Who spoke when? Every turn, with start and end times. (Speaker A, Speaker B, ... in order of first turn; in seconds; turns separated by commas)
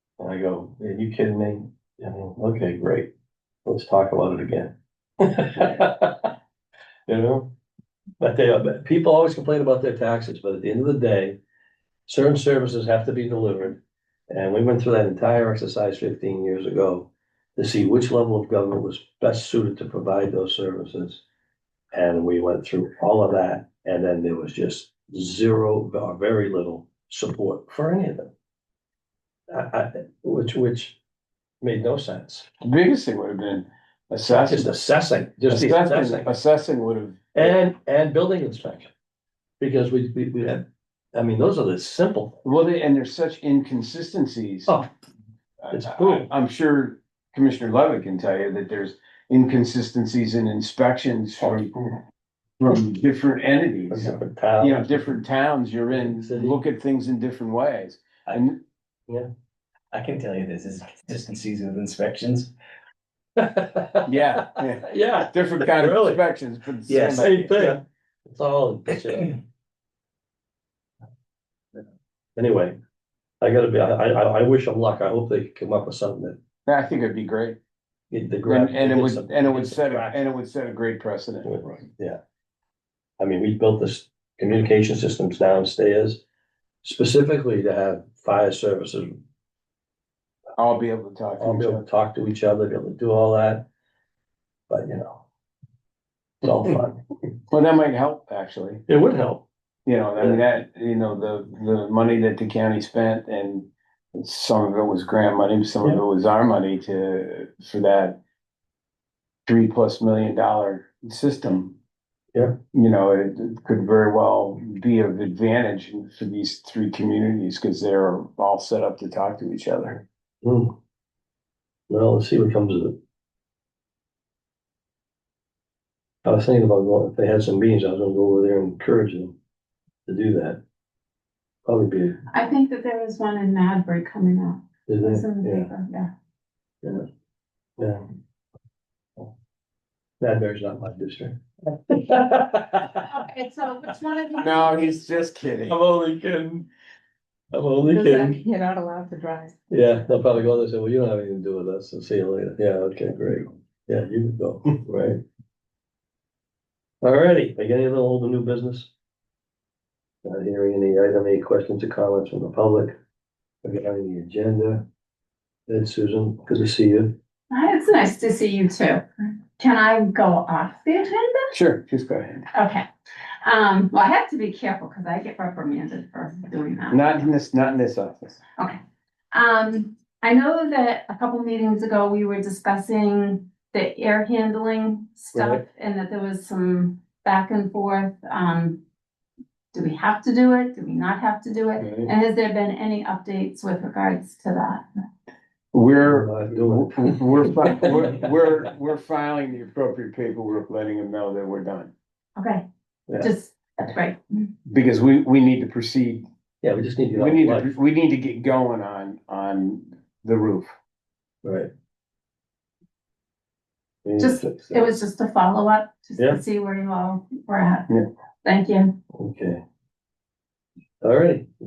Speaker A: 0.2-3.1, Speaker A: 3.6-6.3, Speaker A: 7.1-7.5, Speaker A: 8.2-11.4, Speaker A: 12.1-13.8, Speaker A: 14.3-21.2, Speaker A: 21.9-28.3, Speaker A: 29.5-31.0, Speaker A: 31.6-32.5, Speaker B: 32.6-34.7, Speaker A: 34.3-36.3, Speaker B: 35.5-37.6, Speaker A: 37.4-38.9, Speaker A: 39.6-42.4, Speaker B: 42.4-44.7, Speaker B: 45.6-51.7, Speaker A: 45.7-46.3, Speaker A: 51.4-51.9, Speaker B: 52.6-58.6, Speaker A: 53.9-55.2, Speaker A: 55.9-56.6, Speaker C: 59.9-62.5, Speaker A: 63.4-66.2, Speaker B: 64.1-67.8, Speaker C: 66.9-67.2, Speaker A: 66.9-69.4, Speaker A: 72.4-72.8, Speaker A: 73.4-76.4, Speaker B: 76.7-77.6, Speaker A: 78.1-80.2, Speaker B: 78.5-81.7, Speaker A: 81.4-82.2, Speaker A: 83.2-86.2, Speaker A: 86.8-89.2, Speaker B: 90.6-91.8, Speaker A: 91.4-93.7, Speaker A: 94.7-95.2, Speaker A: 96.4-97.0, Speaker B: 97.5-98.8, Speaker A: 98.9-99.5, Speaker B: 99.9-108.2, Speaker B: 109.5-111.8, Speaker B: 112.7-120.0, Speaker A: 120.4-120.7, Speaker A: 121.9-123.0, Speaker A: 126.2-129.4, Speaker A: 130.1-130.6, Speaker A: 131.7-132.2, Speaker D: 132.3-136.1, Speaker A: 134.9-135.7, Speaker A: 140.2-143.1, Speaker D: 143.1-144.9, Speaker B: 144.4-145.8, Speaker A: 145.7-146.7, Speaker A: 147.5-148.4, Speaker D: 147.9-149.6, Speaker A: 149.7-155.2, Speaker A: 157.0-158.9, Speaker A: 160.2-163.0, Speaker A: 163.6-164.8, Speaker A: 165.7-167.1, Speaker D: 167.5-169.1, Speaker D: 169.6-171.5, Speaker B: 171.5-172.5, Speaker D: 172.5-172.9, Speaker D: 173.4-177.0, Speaker B: 176.9-178.4, Speaker D: 179.3-188.8, Speaker A: 185.3-185.6, Speaker D: 189.7-194.8, Speaker B: 191.8-192.1, Speaker B: 195.7-201.9, Speaker A: 196.1-198.1, Speaker D: 202.4-202.7, Speaker D: 203.2-204.5, Speaker B: 204.7-206.3, Speaker A: 206.6-207.7, Speaker B: 207.1-210.7, Speaker A: 211.4-211.7, Speaker A: 214.0-214.8, Speaker D: 214.2-217.9, Speaker D: 218.4-218.9, Speaker A: 219.1-219.6, Speaker A: 221.0-221.5